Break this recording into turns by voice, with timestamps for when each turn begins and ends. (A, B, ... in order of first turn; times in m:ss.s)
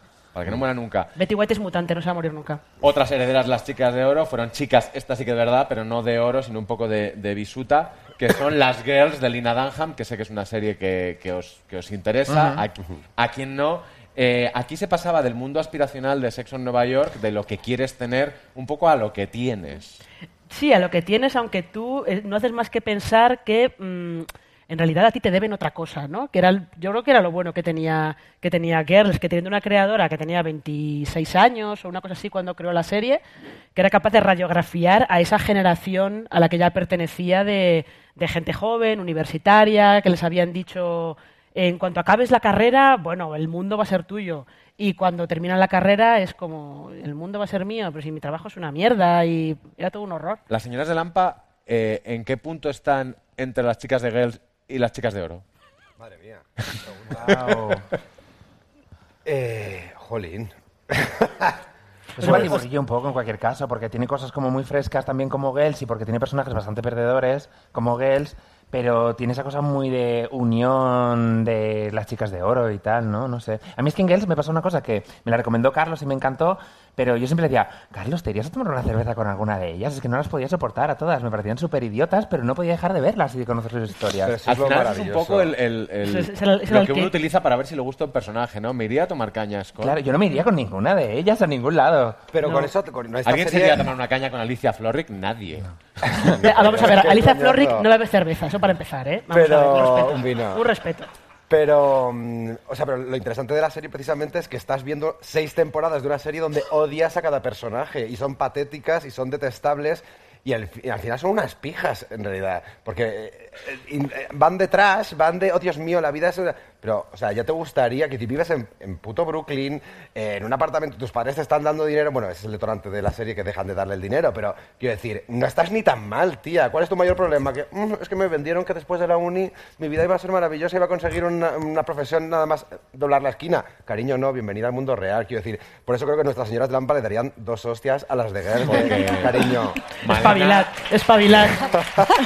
0:00.3-0:01.1 A
0:01.2-0:02.6 B
0:02.8-0:20.0 A
0:12.3-0:12.6 C
0:20.5-0:33.2 B
0:33.7-0:50.4 B
0:50.5-0:55.4 A
0:56.0-0:57.2 D
0:57.1-0:57.8 C
0:59.2-1:01.6 D
1:02.2-1:24.3 C
1:02.2-1:02.6 D
1:02.3-1:02.6 B
1:24.2-1:25.5 D
1:24.4-1:30.0 A
1:26.0-1:27.1 B
1:29.8-1:32.2 C
1:32.3-1:33.9 D
1:32.4-1:32.7 B
1:33.2-1:35.7 A
1:36.4-1:41.1 B
1:36.4-1:37.9 D
1:39.3-1:40.6 D
1:41.5-2:19.8 D
2:18.6-2:21.4 A
2:20.2-2:21.6 B